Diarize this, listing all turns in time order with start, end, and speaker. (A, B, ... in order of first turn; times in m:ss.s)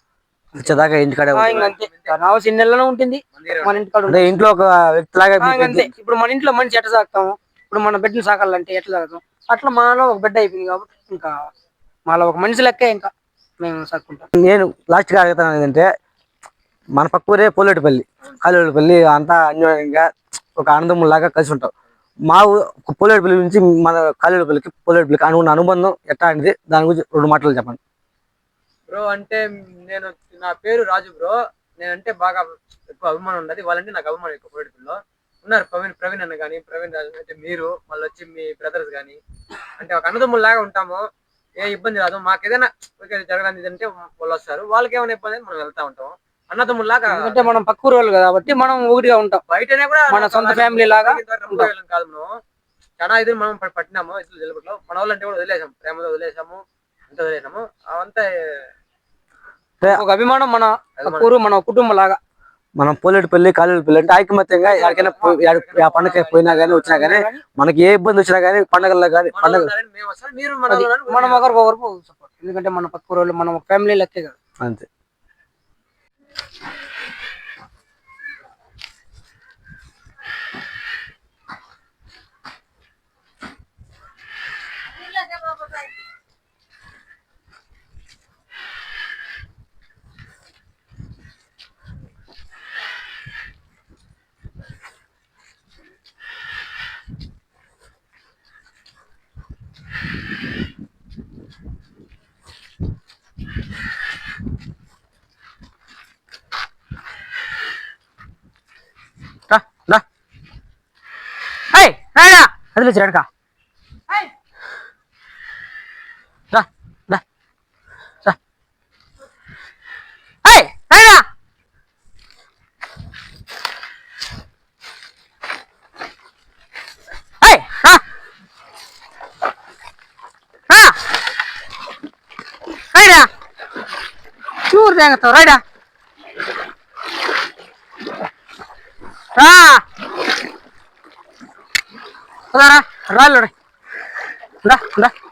0:00.6-0:01.7 A
0:01.3-0:04.4 B
0:01.4-0:02.2 C
0:03.4-0:03.8 C
0:04.1-0:05.9 A
0:05.4-0:11.3 B
0:12.1-0:14.3 B
0:14.3-0:15.9 A
0:16.9-0:21.7 A
0:22.3-0:27.8 A
0:28.9-0:39.2 C
0:39.8-0:41.1 C
0:41.6-0:47.6 C
0:47.1-0:49.4 B
0:49.5-0:52.4 C
0:50.1-0:51.7 B
0:53.0-0:58.7 C
0:59.8-1:02.2 B
1:01.0-1:01.3 C
1:02.8-1:09.7 A
1:04.6-1:07.1 C
1:06.7-1:07.4 B
1:09.3-1:11.6 C
1:10.7-1:14.4 B
1:14.6-1:14.9 A
1:49.5-1:50.0 B
1:51.7-1:53.3 B
1:56.5-1:57.2 B
2:00.4-2:01.2 B
2:07.4-2:08.0 B
2:10.7-2:11.0 B
2:12.9-2:13.3 B
2:14.6-2:15.6 B
2:19.4-2:19.8 B
2:22.5-2:23.5 B
2:24.6-2:25.1 B